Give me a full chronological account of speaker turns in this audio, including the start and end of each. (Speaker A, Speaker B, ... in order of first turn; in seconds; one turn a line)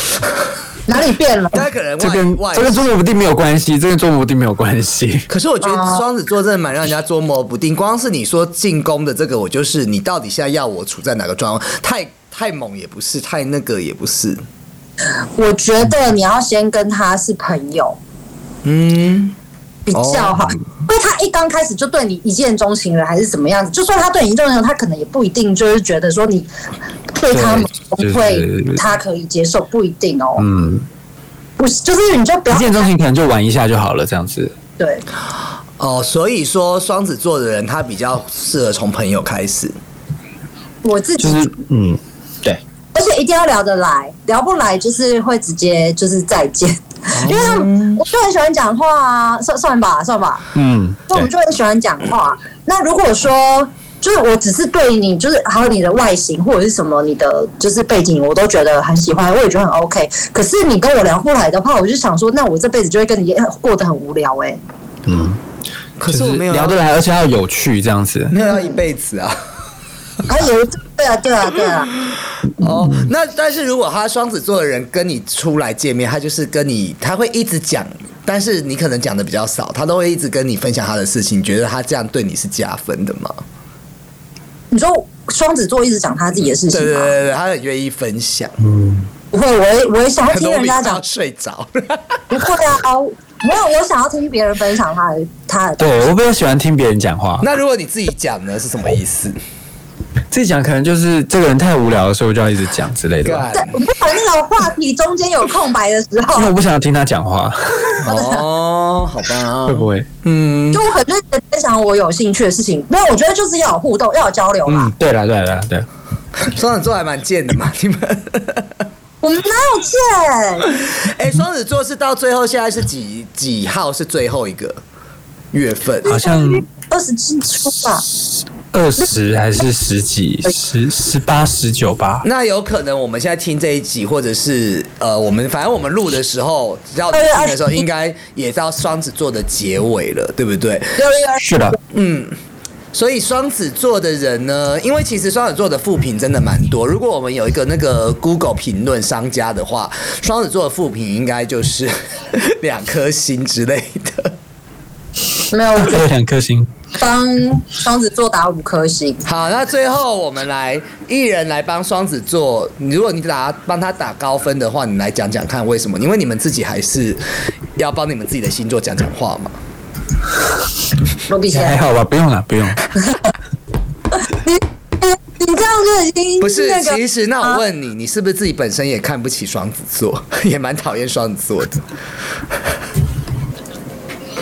Speaker A: 0.9-1.7
Speaker B: 1.5-2.9
Speaker C: 2.0-5.3
Speaker B: 5.3-14.4
Speaker A: 5.7-6.0
Speaker A: 15.4-18.0
Speaker B: 18.6-19.4
Speaker A: 19.9-26.5
Speaker B: 19.9-20.4
Speaker A: 27.1-30.5
Speaker C: 27.3-28.8
Speaker C: 30.4-30.9
Speaker A: 31.6-32.9
Speaker C: 32.5-34.5
Speaker A: 34.8-35.0
Speaker B: 35.8-39.8
Speaker A: 40.8-41.5
Speaker C: 41.2-42.6
Speaker A: 42.9-50.5
Speaker B: 47.1-48.0
Speaker C: 50.5-51.3
Speaker A: 51.1-64.6
Speaker C: 65.1-65.4
Speaker B: 66.0-66.8
Speaker C: 66.1-68.3
Speaker B: 68.3-69.4
Speaker A: 70.3-72.0
Speaker B: 72.6-83.4
Speaker C: 72.6-73.1
Speaker A: 84.7-87.2
Speaker B: 86.7-88.6
Speaker C: 88.6-89.1
Speaker A: 89.3-91.0
Speaker B: 90.3-92.2
Speaker A: 92.3-96.1
Speaker C: 95.8-97.5
Speaker B: 97.4-99.4
Speaker C: 100.3-103.5
Speaker B: 103.2-103.8
Speaker A: 103.5-106.5
Speaker C: 106.3-108.0
Speaker B: 108.0-110.8
Speaker A: 108.1-108.4
Speaker C: 109.7-110.1
Speaker A: 110.7-114.9
Speaker C: 114.7-115.9
Speaker B: 116.4-118.8
Speaker A: 119.2-120.8
Speaker B: 120.8-124.8
Speaker B: 125.5-126.2
Speaker C: 126.0-126.7
Speaker A: 126.0-128.0
Speaker C: 128.7-132.2
Speaker B: 132.2-141.0
Speaker A: 137.1-137.8
Speaker A: 141.0-141.5
Speaker C: 141.4-141.8
Speaker B: 141.9-142.4
Speaker B: 142.9-154.4
Speaker A: 155.5-156.0
Speaker C: 155.8-156.7
Speaker A: 157.0-159.2
Speaker B: 159.2-167.3
Speaker B: 167.8-169.6
Speaker A: 171.3-171.8
Speaker C: 171.5-172.9
Speaker A: 174.2-177.6
Speaker B: 176.4-181.9